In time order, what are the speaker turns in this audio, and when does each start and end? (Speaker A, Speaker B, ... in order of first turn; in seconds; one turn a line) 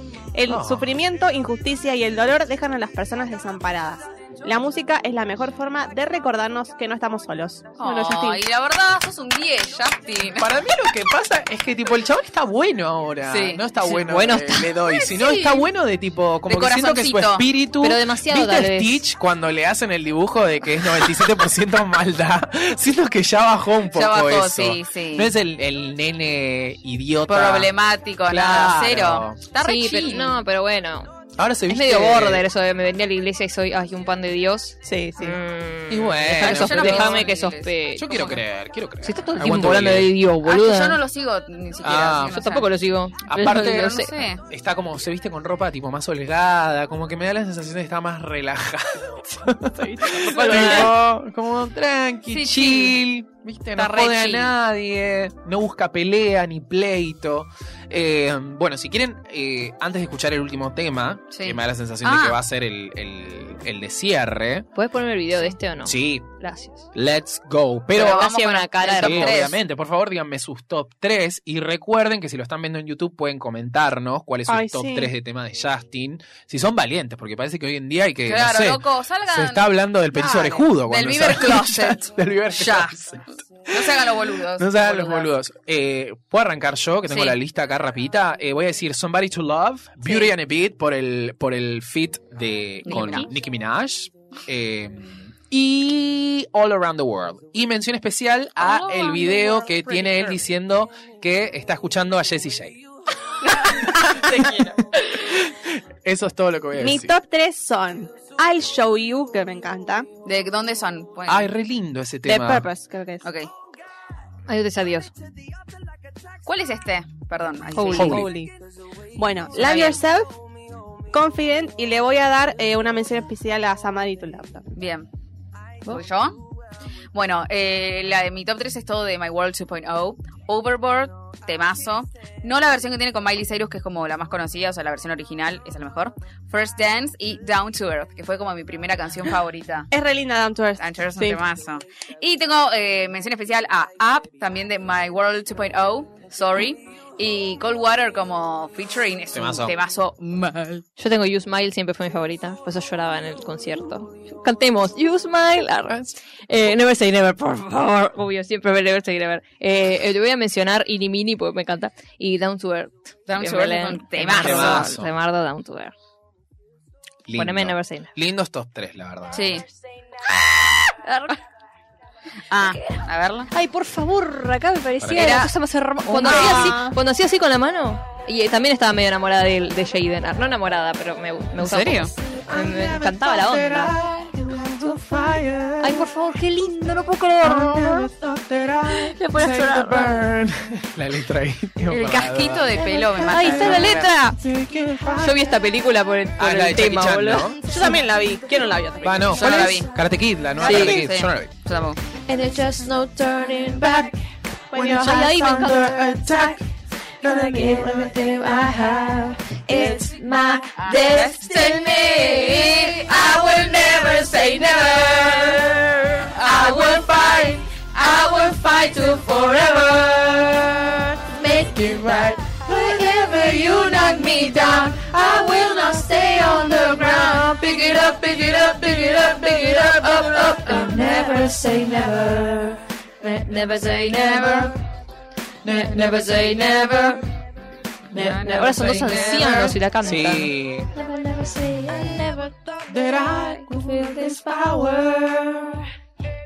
Speaker A: 0.3-8.4
Speaker B: 0.5-1.0
Speaker C: 7.8-10.5
Speaker B: 10.3-27.7
Speaker C: 13.3-13.7
Speaker D: 13.8-14.7
Speaker C: 14.9-15.7
Speaker C: 16.5-17.4
Speaker D: 17.8-19.0
Speaker C: 23.9-25.3
Speaker C: 27.3-30.4
Speaker B: 28.2-29.4
Speaker D: 29.6-31.1
Speaker B: 31.4-32.5
Speaker D: 31.7-38.4
Speaker A: 34.8-35.4
Speaker B: 35.9-37.2
Speaker C: 36.4-38.4
Speaker B: 38.0-40.1
Speaker D: 39.0-41.0
Speaker C: 40.4-42.7
Speaker B: 41.8-42.4
Speaker D: 42.3-44.1
Speaker B: 43.2-64.7
Speaker C: 43.3-44.4
Speaker D: 50.0-50.9
Speaker C: 50.1-50.9
Speaker C: 52.3-53.0
Speaker C: 53.8-54.5
Speaker C: 61.3-62.4
Speaker D: 64.7-66.8
Speaker B: 65.8-66.3
Speaker B: 66.9-68.3
Speaker C: 67.9-69.5
Speaker D: 68.0-69.5
Speaker B: 68.9-84.0
Speaker A: 74.5-75.1
Speaker C: 78.3-83.1
Speaker A: 80.3-80.6
Speaker C: 83.7-85.3
Speaker B: 84.5-102.8
Speaker C: 87.1-87.3
Speaker C: 92.8-93.3
Speaker D: 98.6-99.1
Speaker E: 99.1-99.6
Speaker B: 103.7-107.1
Speaker A: 106.7-110.1
Speaker C: 110.2-111.5
Speaker B: 111.3-112.7
Speaker A: 112.2-113.2
Speaker C: 113.2-113.5
Speaker D: 114.5-115.1
Speaker C: 116.4-118.2
Speaker D: 117.7-118.3
Speaker A: 117.8-118.5
Speaker B: 118.0-118.3
Speaker A: 119.1-120.3
Speaker C: 119.5-120.0
Speaker A: 121.1-124.7
Speaker C: 124.7-125.1
Speaker C: 125.8-126.4
Speaker C: 127.1-139.9
Speaker A: 139.9-141.4
Speaker C: 140.8-150.8
Speaker B: 149.3-149.8
Speaker D: 151.0-165.9
Speaker B: 155.9-156.1
Speaker C: 163.3-164.9
Speaker B: 164.3-165.1
Speaker B: 167.3-169.6
Speaker D: 167.3-168.1
Speaker C: 169.3-169.6
Speaker D: 171.0-171.4
Speaker C: 172.5-173.5
Speaker D: 172.6-173.0
Speaker D: 173.5-183.9
Speaker B: 175.0-175.4
Speaker C: 175.1-175.5
Speaker C: 176.1-176.9
Speaker A: 176.4-176.6
Speaker C: 181.6-182.1
Speaker E: 182.3-186.1
Speaker D: 185.8-188.1
Speaker E: 187.4-190.8
Speaker D: 189.1-190.2
Speaker B: 190.8-192.7
Speaker C: 191.9-194.1
Speaker E: 192.8-195.5
Speaker D: 193.2-194.4
Speaker D: 195.1-197.6
Speaker B: 196.4-197.6
Speaker A: 197.7-199.4
Speaker B: 199.0-201.5
Speaker C: 199.3-199.9
Speaker C: 200.6-202.0
Speaker D: 200.6-201.0
Speaker E: 202.3-206.6
Speaker A: 204.7-205.3
Speaker E: 207.2-234.8
Speaker A: 209.7-210.1
Speaker C: 210.8-211.5
Speaker C: 212.5-212.9
Speaker C: 216.4-216.7
Speaker E: 235.6-237.3
Speaker E: 238.1-239.8
Speaker C: 238.1-239.7
Speaker D: 238.4-240.5
Speaker B: 240.0-240.9
Speaker E: 240.9-245.9